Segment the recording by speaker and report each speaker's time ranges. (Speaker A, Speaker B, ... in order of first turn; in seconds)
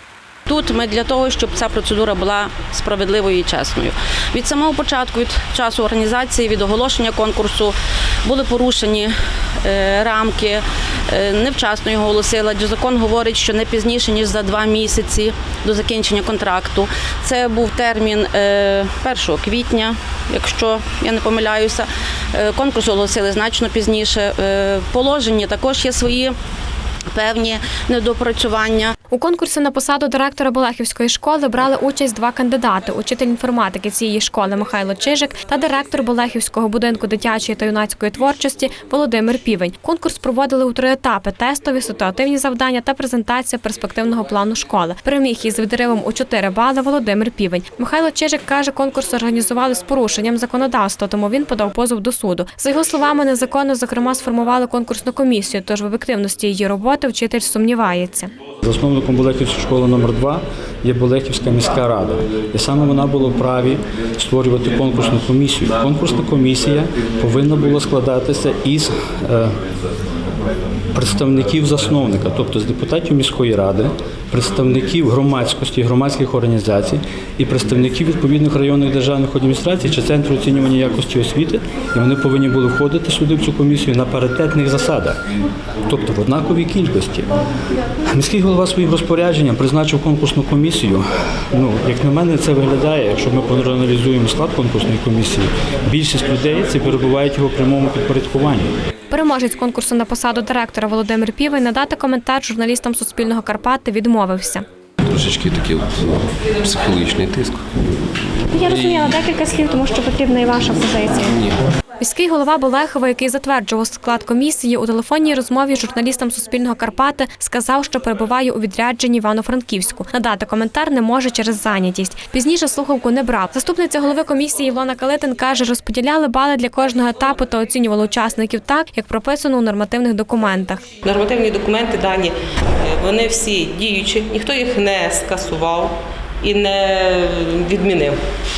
Speaker A: 0.5-26.4, 27.1-28.9
Speaker B: 29.1-58.3, 99.1-104.6, 108.5-111.4, 112.0-130.8
Speaker C: 58.6-69.5, 70.9-85.2, 85.9-87.3, 88.1-98.7
Speaker D: 105.0-107.6, 108.7-109.2
Speaker E: 131.0-138.2